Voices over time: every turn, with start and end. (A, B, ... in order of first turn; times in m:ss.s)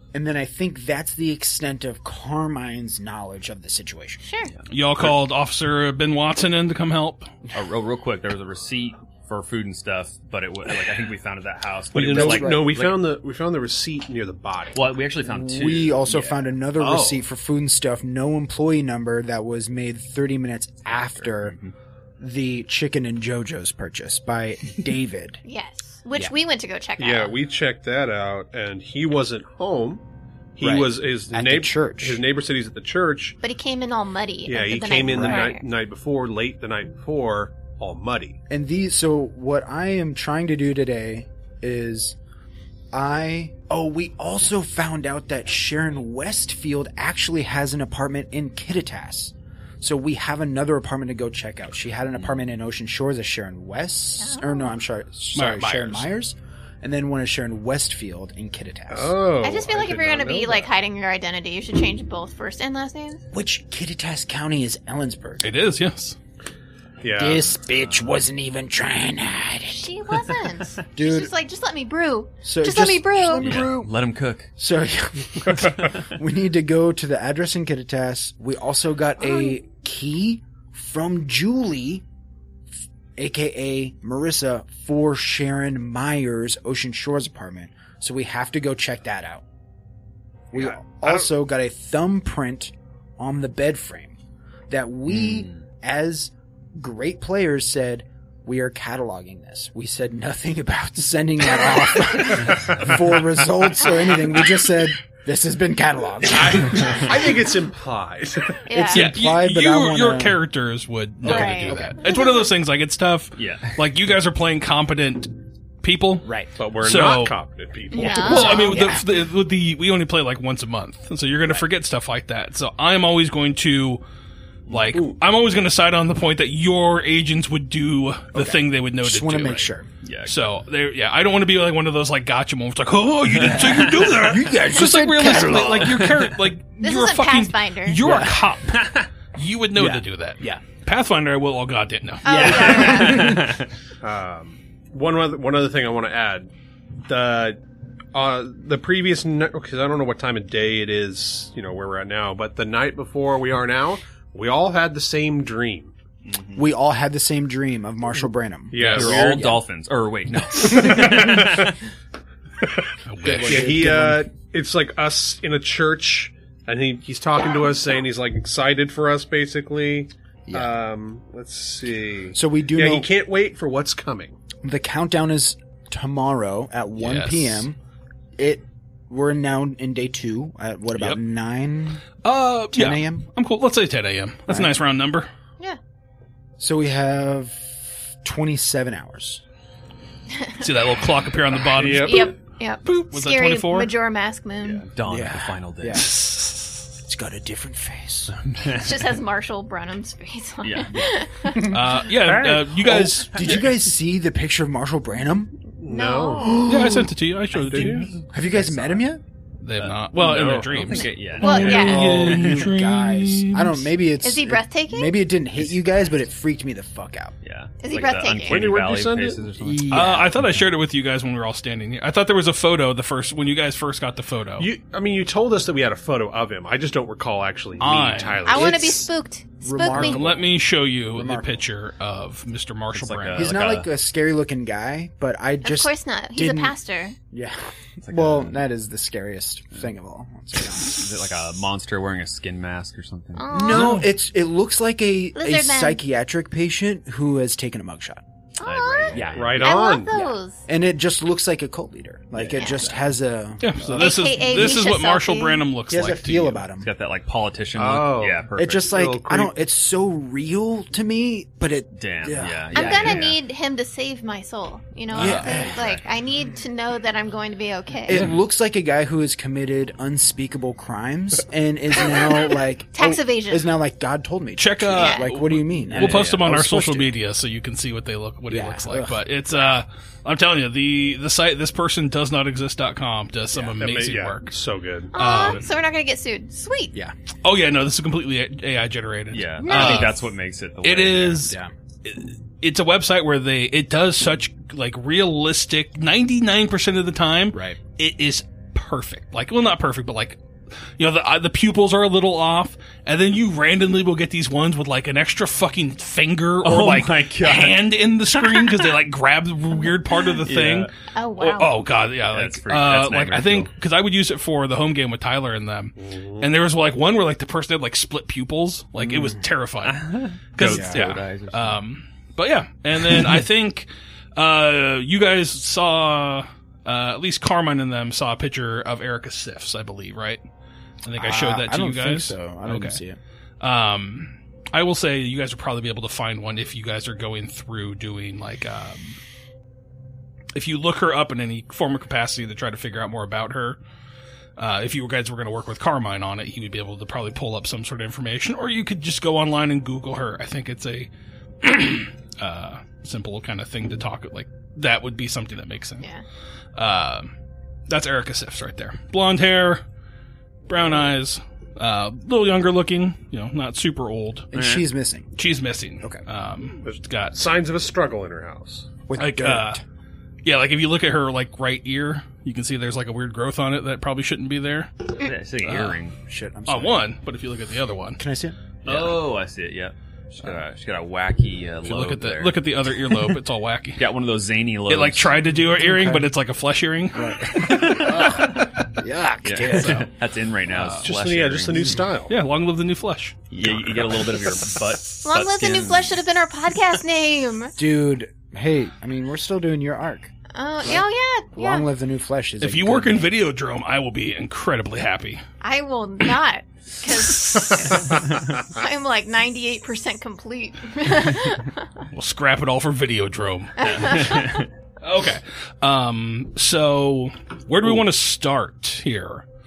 0:00.1-0:04.2 A
0:04.2-0:04.5 B
0:04.7-0:07.3 C
0:07.5-0:13.0 D
0:11.9-0:14.9 E
0:12.0-0:12.8 A
0:14.8-0:16.4 D
0:15.2-0:21.6 A
0:16.8-0:17.2 E
0:20.9-0:21.7 D
0:22.2-0:25.4 A
0:25.4-0:27.4 B
0:27.0-0:30.0 E
0:30.6-0:33.4 E
0:30.6-0:32.2 A
0:33.4-0:35.6 B
0:34.5-0:38.4 E
0:35.1-0:35.5 A
0:38.5-0:42.2 A
0:42.9-0:59.2 A
0:54.2-0:54.7 B
0:55.3-0:56.1 C
0:58.9-1:00.7 E
0:59.4-1:03.2 B
1:03.3-1:05.5 A
1:05.4-1:06.2 C
1:07.0-1:07.5 E
1:07.2-1:09.9 A
1:07.8-1:08.1 D
1:09.7-1:13.7 B
1:11.0-1:11.3 A
1:12.4-1:13.9 A
1:13.4-1:14.5 D
1:14.6-1:22.0 A
1:15.8-1:16.1 D
1:19.2-1:19.5 B
1:23.2-1:29.4 A
1:30.5-1:34.2 A
1:30.6-1:31.3 E
1:34.7-1:47.3 A
1:35.1-1:35.6 D
1:42.4-1:42.7 D
1:46.3-1:48.6 E
1:48.7-1:49.1 B
1:48.7-1:50.4 A
1:48.9-1:56.3 C
1:51.2-1:52.0 A
1:51.2-1:52.5 B
1:53.4-1:53.8 D
1:56.2-1:56.5 A
1:56.6-1:58.8 E
1:56.8-1:57.4 C
1:57.9-1:59.0 B
1:57.9-2:04.0 C
2:04.7-2:09.7 C
2:04.7-2:05.0 D
2:08.3-2:09.9 A
2:10.0-2:10.4 D
2:10.2-2:23.1 C
2:13.4-2:14.0 D
2:13.4-2:16.0 A
2:15.8-2:16.4 D
2:16.8-2:18.0 B
2:18.0-2:18.4 A
2:18.7-2:19.1 D
2:19.8-2:20.6 A
2:22.2-2:23.4 B
2:22.3-2:23.7 D
2:24.0-2:26.5 E
2:27.1-2:27.6 E
2:28.1-2:36.0 E
2:36.3-2:36.7 D
2:36.6-2:39.6 A
2:38.7-2:39.4 E
2:38.8-2:39.1 C
2:38.8-2:41.8 D
2:40.7-2:41.7 E
2:42.6-2:42.9 E
2:43.1-2:43.8 C
2:43.2-2:44.3 A
2:43.4-2:54.4 E
2:50.5-2:50.8 A
2:52.3-2:53.1 A
2:54.6-2:57.8 A
2:57.0-2:57.7 C
2:58.4-3:02.1 A
3:02.2-3:05.3 C
3:02.7-3:03.3 A
3:04.5-3:04.8 A
3:06.6-3:09.4 A
3:10.4-3:10.6 B
3:10.6-3:13.9 C
3:11.7-3:12.3 E
3:11.8-3:14.9 B
3:14.6-3:16.1 D
3:15.1-3:16.1 A
3:15.9-3:16.9 C
3:17.0-3:18.4 A
3:18.4-3:18.9 D
3:18.7-3:21.7 B
3:20.6-3:21.1 D
3:21.0-3:25.5 A
3:21.6-3:23.6 C
3:23.4-3:23.6 D
3:25.8-3:26.6 E
3:25.8-3:26.6 B
3:26.4-3:27.1 A
3:26.6-3:28.1 C
3:27.6-3:28.1 E
3:27.9-3:29.0 D
3:28.3-3:29.2 A
3:29.6-3:33.9 C
3:29.8-3:32.7 D
3:30.2-3:30.9 E
3:31.4-3:32.1 B
3:31.6-3:37.3 A
3:34.2-3:35.2 B
3:37.4-3:40.7 D
3:37.8-3:38.7 B
3:38.5-3:39.5 E
3:39.6-3:40.3 A
3:39.9-3:44.7 C
3:44.6-3:49.0 E
3:47.8-3:48.5 C
3:48.4-3:50.2 B
3:48.5-3:49.1 A
3:49.6-3:50.5 A
3:49.9-3:53.7 C
3:51.1-3:51.6 A
3:52.9-3:53.9 D
3:53.4-3:56.8 A
3:55.6-3:57.2 B
3:57.3-4:01.0 A
3:58.0-3:58.6 D
4:00.7-4:03.8 D
4:03.4-4:04.0 B
4:03.5-4:08.2 A
4:03.7-4:04.1 C
4:05.4-4:06.0 B
4:08.6-4:10.6 B
4:08.6-4:09.7 D
4:09.1-4:14.2 A
4:09.4-4:10.1 E
4:12.4-4:13.0 D
4:12.6-4:12.9 B
4:13.6-4:16.6 C
4:13.9-4:15.6 B
4:15.9-4:16.9 A
4:16.8-4:18.9 D
4:17.8-4:19.5 E
4:18.6-4:23.2 A
4:22.0-4:23.4 D
4:22.7-4:28.2 B
4:25.2-4:25.6 C
4:25.2-4:26.0 A
4:25.7-4:26.0 D
4:28.1-4:37.1 A
4:32.9-4:33.7 B
4:34.6-4:44.6 C
4:34.9-4:35.3 B
4:35.9-4:36.4 D
4:38.5-4:39.2 A
4:43.8-4:45.1 E
4:45.1-4:45.7 C
4:45.1-4:47.0 B
4:47.4-4:50.2 C
4:49.3-4:51.5 D
4:49.6-4:50.2 B
4:50.8-5:00.4 C
4:51.4-4:51.7 A
4:57.5-4:57.8 A
5:01.0-5:30.4 C
5:06.6-5:09.0 D
5:10.4-5:10.9 D
5:11.1-5:11.8 B
5:12.3-5:13.7 D
5:16.0-5:16.5 E
5:19.0-5:19.4 A
5:19.8-5:21.8 D
5:20.6-5:21.0 A
5:31.0-5:33.0 C
5:31.2-5:33.2 A
5:33.6-5:39.2 C
5:40.5-5:43.8 C
5:44.6-5:51.1 C
5:51.6-5:56.1 C
5:56.8-5:57.3 C
5:57.9-5:59.8 C
6:00.7-6:04.5 C
6:04.5-6:05.3 A
6:04.6-6:04.8 D
6:05.4-6:07.4 C
6:06.8-6:08.9 E
6:09.1-6:09.8 A
6:09.2-6:09.8 C
6:10.4-6:16.0 C
6:15.2-6:16.2 D
6:16.3-6:17.1 A
6:16.7-6:18.2 C
6:18.2-6:18.6 A
6:18.8-6:23.4 D
6:18.9-6:19.1 C
6:21.8-6:24.1 C
6:24.0-6:25.4 D
6:24.9-6:28.9 C
6:25.8-6:26.3 A
6:27.1-6:30.1 A
6:27.7-6:28.5 D
6:29.4-6:32.0 D
6:29.8-6:30.0 C
6:30.7-6:31.1 C
6:31.0-6:32.4 E
6:31.7-6:32.0 A
6:32.3-6:34.7 C
6:33.5-6:36.2 D
6:35.2-6:37.7 B
6:37.8-6:40.3 A
6:40.5-6:41.9 B
6:41.6-6:43.3 A
6:42.6-6:45.4 C
6:45.6-6:51.9 B
6:47.4-6:47.8 C
6:52.1-6:59.4 C
6:53.8-6:54.6 B
6:53.8-6:54.7 D